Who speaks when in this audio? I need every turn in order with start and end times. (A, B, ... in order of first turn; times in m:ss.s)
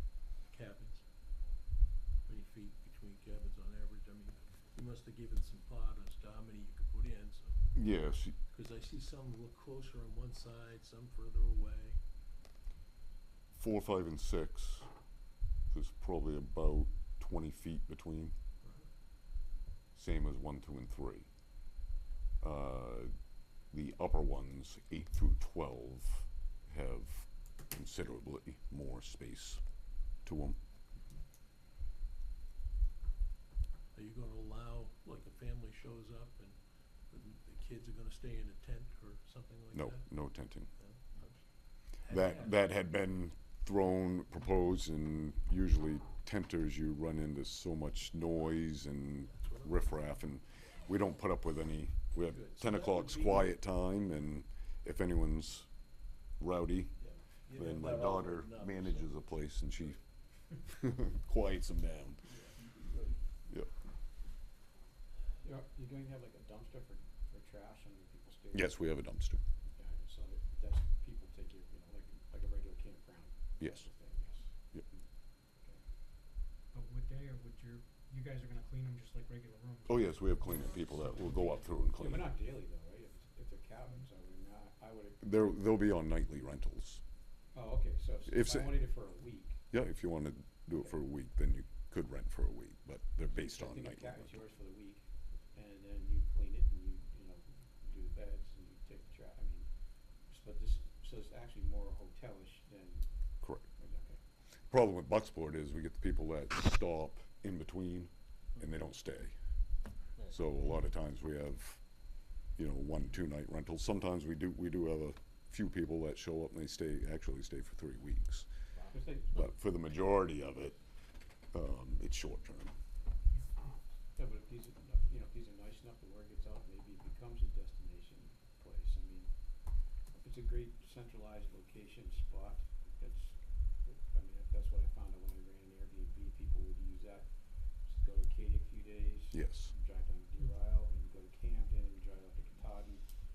0:00.2-0:01.0 A
0:02.2-0:12.0 A
0:07.7-0:08.4 B
0:13.5-0:14.9 B
0:15.7-0:18.3 B
0:18.6-0:18.9 A
0:19.9-0:21.3 B
0:22.4-0:23.1 B
0:23.7-0:29.6 B
0:30.2-0:30.6 B
0:33.9-0:42.5 A
0:39.7-0:40.7 B
0:42.0-0:55.7 B
0:49.3-0:50.1 A
0:52.2-0:53.6 A
0:56.4-0:57.0 B
0:57.0-0:59.8 A
0:57.5-1:00.0 B
1:00.6-1:02.2 B
1:02.3-1:03.1 A
1:05.4-1:08.8 C
1:08.5-1:09.4 B
1:09.7-1:15.0 C
1:13.6-1:13.8 B
1:16.7-1:21.6 D
1:19.9-1:22.3 B
1:21.9-1:25.3 C
1:25.2-1:27.0 B
1:27.5-1:29.6 C
1:28.3-1:28.8 B
1:29.7-1:34.4 B
1:33.3-1:39.7 C
1:40.2-1:43.1 C
1:43.4-1:43.7 B
1:43.8-1:44.2 C
1:44.7-1:49.4 B
1:50.3-1:51.8 B
1:52.6-1:58.5 B
1:58.9-1:59.5 C
1:59.3-2:00.8 B
2:01.5-2:02.7 B
2:04.2-2:09.3 C
2:10.1-2:17.3 C
2:17.8-2:23.0 C
2:19.3-2:19.7 B